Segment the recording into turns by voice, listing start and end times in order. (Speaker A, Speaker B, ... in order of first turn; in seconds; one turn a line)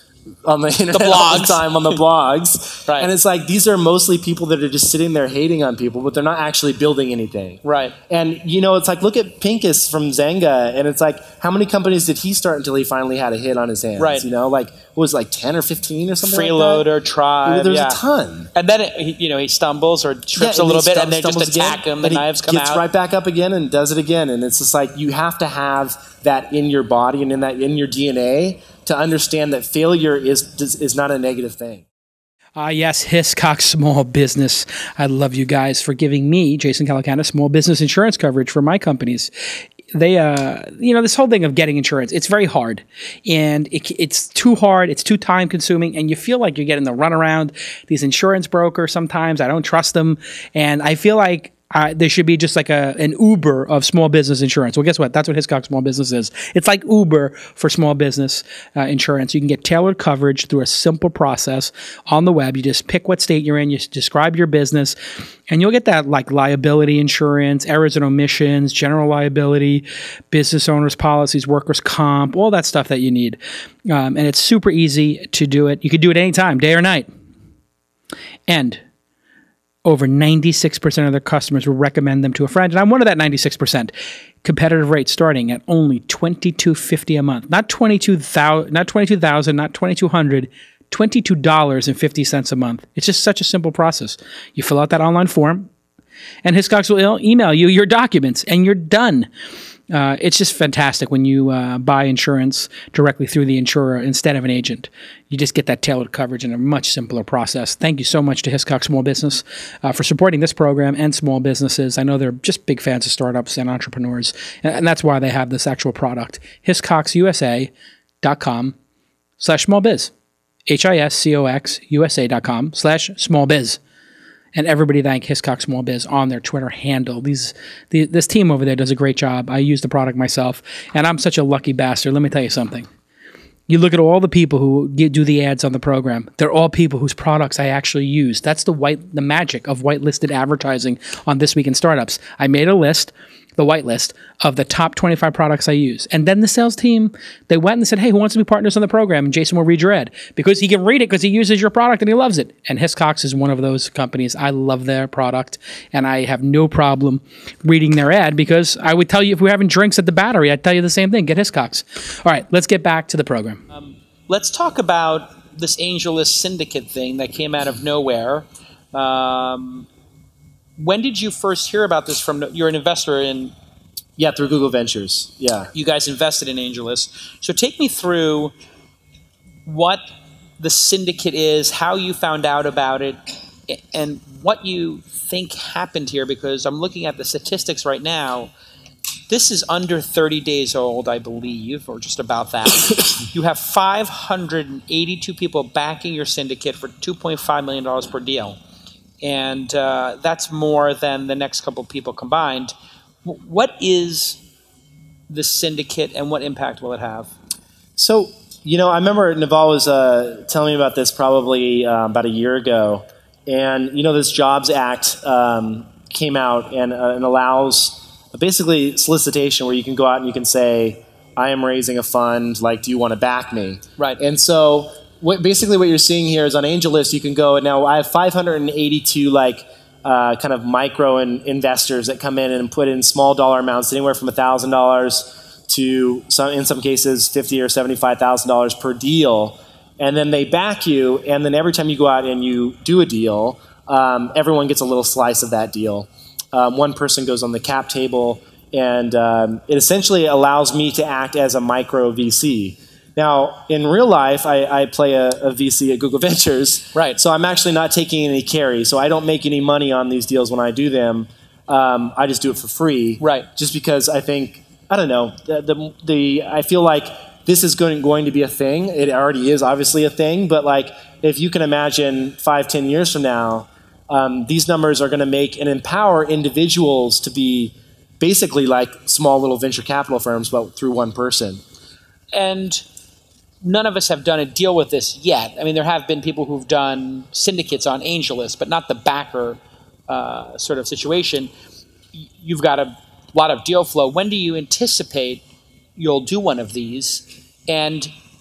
Speaker A: 0.4-16.9
Speaker B: 0.9-1.6
Speaker B: 7.6-8.0
Speaker B: 14.0-14.2
Speaker B: 16.2-18.0
Speaker A: 17.4-18.5
Speaker B: 18.5-22.8
Speaker A: 20.4-31.9
Speaker C: 32.6-39.3
Speaker C: 39.9-65.0
Speaker C: 65.5-77.1
Speaker C: 78.5-78.8
Speaker C: 79.8-95.7
Speaker C: 96.4-99.3
Speaker C: 99.9-117.7
Speaker C: 118.2-118.7
Speaker C: 119.4-120.1
Speaker C: 120.7-123.8
Speaker C: 124.5-132.9
Speaker C: 133.7-163.6
Speaker B: 163.7-169.9
Speaker B: 170.8-173.5
Speaker A: 174.2-175.7
Speaker B: 175.7-178.5
Speaker B: 179.7-180.0
Speaker B: 180.6-188.5
Speaker B: 189.3-198.6
Speaker B: 199.2-204.4
Speaker B: 205.3-207.3
Speaker A: 208.0-281.6
Speaker B: 263.2-263.5
Speaker B: 282.3-282.8
Speaker B: 283.6-291.5
Speaker B: 292.1-295.4
Speaker B: 295.9-298.1